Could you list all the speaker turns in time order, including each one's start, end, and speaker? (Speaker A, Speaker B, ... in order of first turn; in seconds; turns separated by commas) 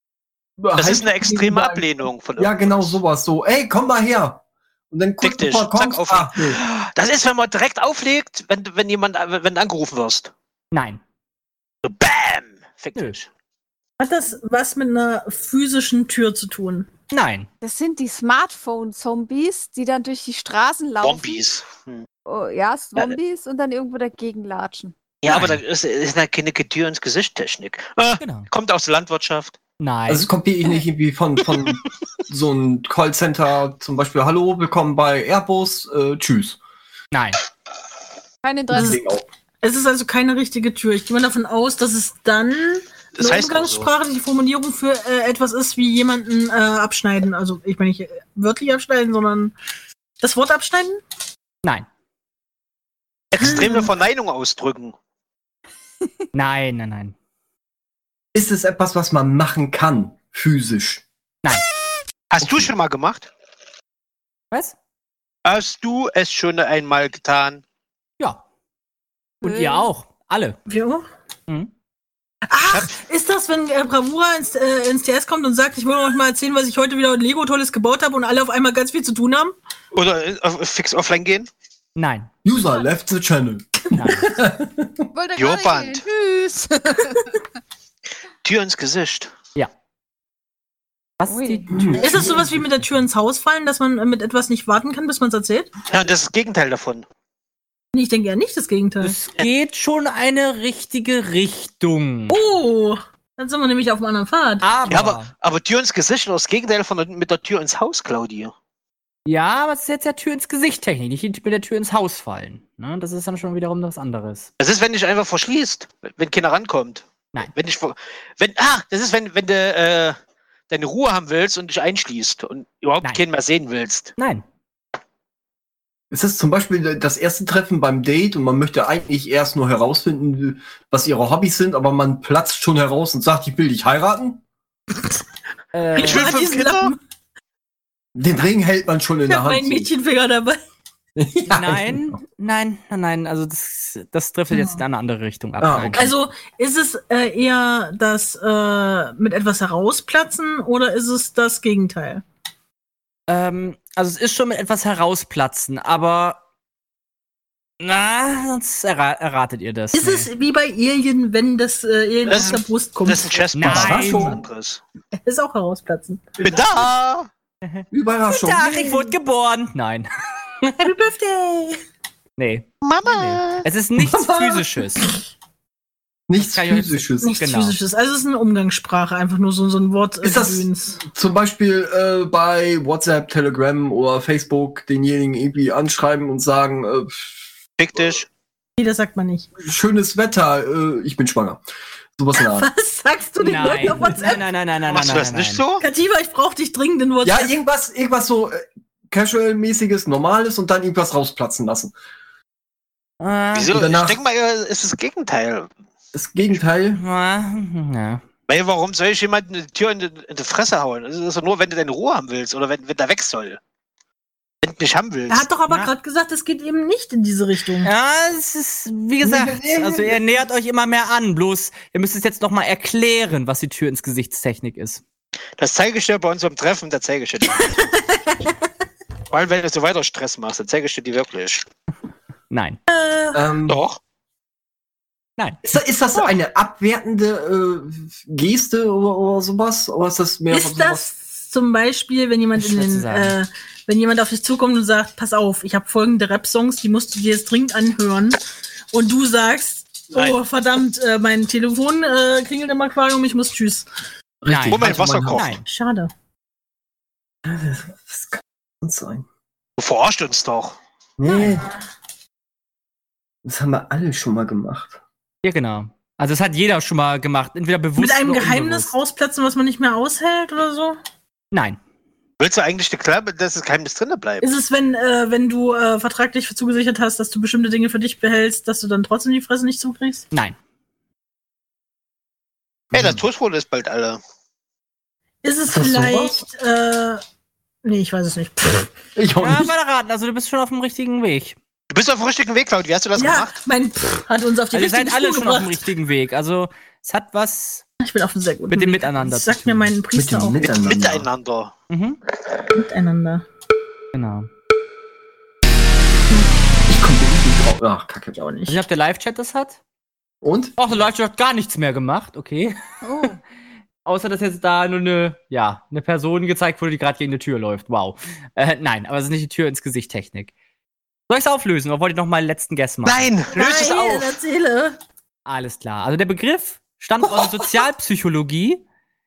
Speaker A: 0.6-1.8, Speaker B: 0.8-2.9, Speaker A: 2.4-6.6, Speaker B: 5.2-10.3, Speaker C: 10.7-11.0, Speaker B: 11.8-13.3, Speaker D: 14.0-16.9, Speaker C: 17.1-17.5, Speaker E: 17.6-21.4, Speaker B: 21.0-22.0, Speaker E: 22.2-25.0, Speaker B: 25.2-29.6, Speaker C: 25.2-25.6, Speaker C: 28.2-28.5, Speaker C: 29.8-30.3, Speaker A: 30.1-36.6, Speaker C: 37.1-37.4, Speaker E: 38.4-39.0, Speaker D: 38.7-39.0, Speaker A: 38.7-39.2, Speaker D: 39.6-49.5, Speaker B: 43.1-43.9, Speaker D: 50.2-51.0, Speaker B: 53.3-54.9, Speaker D: 53.4-53.9, Speaker C: 56.3-57.1, Speaker A: 58.3-61.0, Speaker B: 62.3-63.3, Speaker A: 62.4-62.7, Speaker B: 65.4-67.6, Speaker C: 69.4-70.6, Speaker E: 69.4-69.9, Speaker D: 70.7-71.0, Speaker D: 72.5-79.5, Speaker B: 72.7-73.0, Speaker B: 79.9-81.5, Speaker C: 82.0-82.3, Speaker A: 82.4-85.1, Speaker C: 83.9-84.3, Speaker E: 85.1-87.4, Speaker B: 85.4-86.0, Speaker B: 88.4-89.3, Speaker C: 91.2-91.9, Speaker E: 91.3-92.3, Speaker A: 91.7-92.6, Speaker D: 92.0-95.7, Speaker B: 95.9-97.0, Speaker D: 97.9-99.2, Speaker C: 99.0-102.4, Speaker D: 102.3-104.7, Speaker C: 104.6-105.3, Speaker B: 104.9-108.5, Speaker C: 109.2-114.5, Speaker B: 114.6-120.2, Speaker B: 120.7-124.1, Speaker C: 124.2-124.4, Speaker A: 126.1-134.4, Speaker C: 135.7-136.3, Speaker D: 135.9-137.0, Speaker B: 136.0-136.9, Speaker A: 138.1-139.9, Speaker D: 139.3-140.6, Speaker A: 141.2-142.2, Speaker C: 141.5-146.1, Speaker D: 144.5-144.8, Speaker A: 145.6-146.1, Speaker D: 145.9-152.2, Speaker C: 153.3-156.4, Speaker C: 157.8-160.3, Speaker D: 159.9-163.4, Speaker B: 162.2-164.8, Speaker C: 163.5-164.4, Speaker A: 163.6-164.4, Speaker D: 165.2-166.4, Speaker B: 166.4-167.3, Speaker C: 167.6-170.1, Speaker A: 167.9-169.1, Speaker C: 170.6-170.9, Speaker D: 170.8-171.8, Speaker C: 172.4-175.1, Speaker B: 172.8-173.7, Speaker A: 174.0-174.7, Speaker A: 176.3-177.3, Speaker C: 176.3-177.8, Speaker D: 177.2-181.0, Speaker A: 180.2-187.4, Speaker B: 187.8-188.3, Speaker D: 188.8-189.5, Speaker A: 189.6-191.6, Speaker A: 192.2-192.7, Speaker D: 192.3-194.4, Speaker C: 193.4-195.6, Speaker A: 193.9-194.2, Speaker B: 194.9-195.8, Speaker D: 195.8-197.5, Speaker A: 197.2-201.9, Speaker C: 203.2-203.7, Speaker B: 203.5-205.7, Speaker A: 203.7-204.2, Speaker A: 206.1-207.0, Speaker C: 206.9-208.2, Speaker B: 208.5-213.6, Speaker B: 214.6-215.4, Speaker D: 215.3-217.9, Speaker C: 217.8-225.0, Speaker A: 219.2-220.2, Speaker B: 225.6-227.8, Speaker D: 227.5-228.6, Speaker B: 229.3-231.6, Speaker C: 232.5-232.8, Speaker D: 232.9-233.4, Speaker A: 233.3-233.8, Speaker B: 233.7-234.0, Speaker C: 235.4-235.6, Speaker A: 235.6-241.1, Speaker D: 240.5-248.4, Speaker C: 242.6-243.4, Speaker D: 248.9-253.9, Speaker A: 254.4-255.5, Speaker C: 254.4-255.6, Speaker B: 254.7-255.6, Speaker D: 255.7-256.1, Speaker A: 257.4-259.2, Speaker B: 259.8-260.8, Speaker A: 261.2-261.7, Speaker A: 263.4-265.0, Speaker C: 265.4-268.9, Speaker D: 268.0-271.0, Speaker C: 271.5-271.8, Speaker B: 272.4-274.5, Speaker D: 274.4-280.2, Speaker A: 282.9-283.2, Speaker B: 282.9-284.2, Speaker D: 285.4-287.2, Speaker A: 285.7-286.4, Speaker D: 287.8-288.9, Speaker A: 289.1-289.7, Speaker C: 289.4-291.6, Speaker B: 291.9-293.5, Speaker D: 293.1-295.8, Speaker C: 294.7-297.8, Speaker D: 298.0-300.6, Speaker C: 298.7-299.9, Speaker A: 300.1-301.3, Speaker B: 300.6-301.7, Speaker C: 301.9-302.2, Speaker D: 302.7-303.4, Speaker C: 304.1-304.5, Speaker A: 306.9-308.4, Speaker D: 308.4-308.8, Speaker C: 308.7-309.8, Speaker A: 310.4-310.8, Speaker C: 310.8-313.3, Speaker E: 313.0-313.4, Speaker C: 314.0-320.5, Speaker C: 321.3-324.2, Speaker B: 323.0-324.1, Speaker D: 323.5-325.0, Speaker C: 325.4-328.8